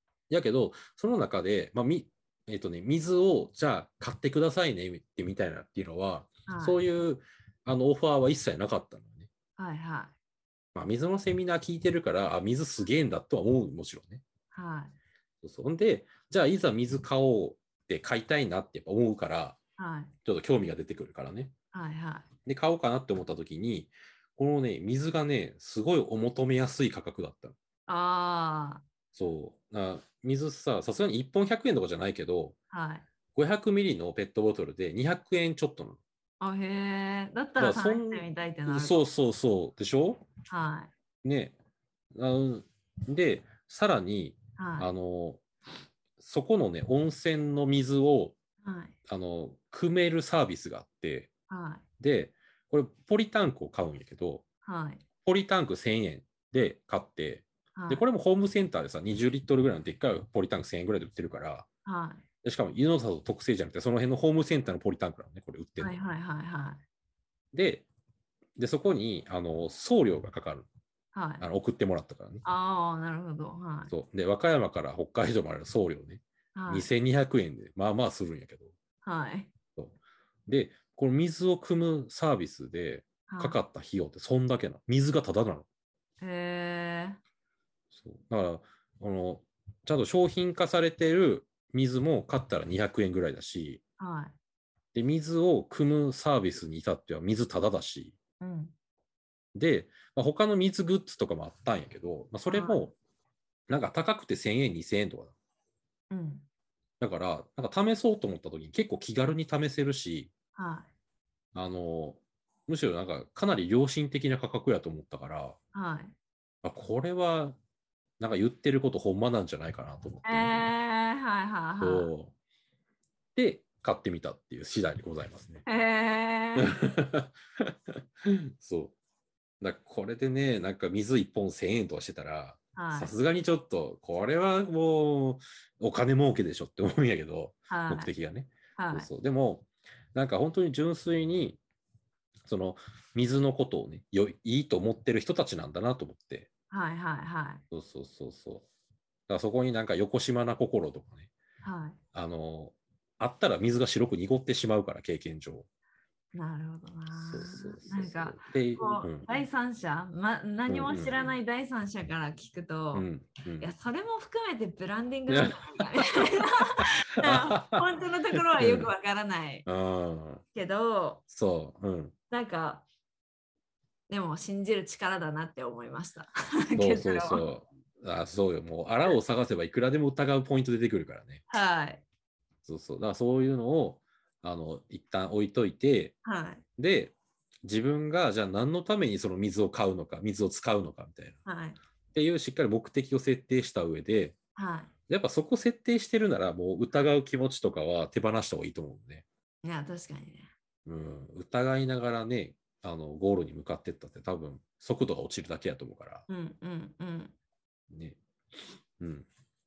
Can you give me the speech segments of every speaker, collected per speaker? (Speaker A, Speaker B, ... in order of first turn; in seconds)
Speaker A: 0.3-9.3, 10.7-14.2, 15.4-19.6, 20.2-21.5, 22.4-27.6, 29.1-32.5, 33.3-36.0, 37.5-40.3, 41.2-41.5, 42.1-45.4, 46.2-48.4, 49.1-51.3, 52.0-54.4, 55.2-61.7, 62.4-66.0, 67.5-67.8, 68.6-70.7, 71.4-72.4, 73.9-78.7, 80.5-85.7, 87.9-93.8, 94.9-98.2, 99.5-102.9, 103.7-105.3, 107.0-110.3, 111.5-115.6, 116.6-117.6, 118.2-120.7, 121.8-122.3, 123.3-125.6, 126.5-128.9, 129.6-141.6, 142.4-146.5, 147.7-148.6, 149.3-151.3, 152.1-155.7, 157.1-159.3, 160.7-161.3, 162.9-163.7, 165.3-166.2, 166.7-168.9, 169.7-170.4, 171.3-172.1, 176.7-181.4, 182.6-186.1, 186.8-191.4, 192.1-194.3, 195.1-199.2, 200.8-206.2, 207.9-208.2, 209.0-209.3
Speaker B: 6.5-6.8, 9.6-10.1, 14.5-14.9, 19.8-20.1, 21.7-22.3, 27.9-28.8, 32.7-33.0, 36.4-39.0, 40.5-40.9, 44.6-44.9, 48.6-48.9, 51.5-51.8, 54.6-55.0, 57.7-58.0, 61.8-62.2, 65.8-66.8, 71.1-71.5, 72.4-73.9, 76.5-76.9, 79.0-79.5, 83.3-83.6, 86.2-87.2, 94.0-94.3, 98.4-98.7, 102.5-102.8, 106.1-106.5, 110.5-110.9, 115.7-116.1, 120.2-122.1, 125.7-126.8, 132.7-133.1, 137.7-138.1, 138.8-139.1, 146.7-147.6, 151.6-152.0, 156.3-163.1, 163.6-169.7, 170.5-171.2, 172.3-172.8, 174.1-177.4, 181.5-182.0, 186.2-186.6, 191.4-191.8, 194.5-194.9, 199.6-200.5, 206.3-207.3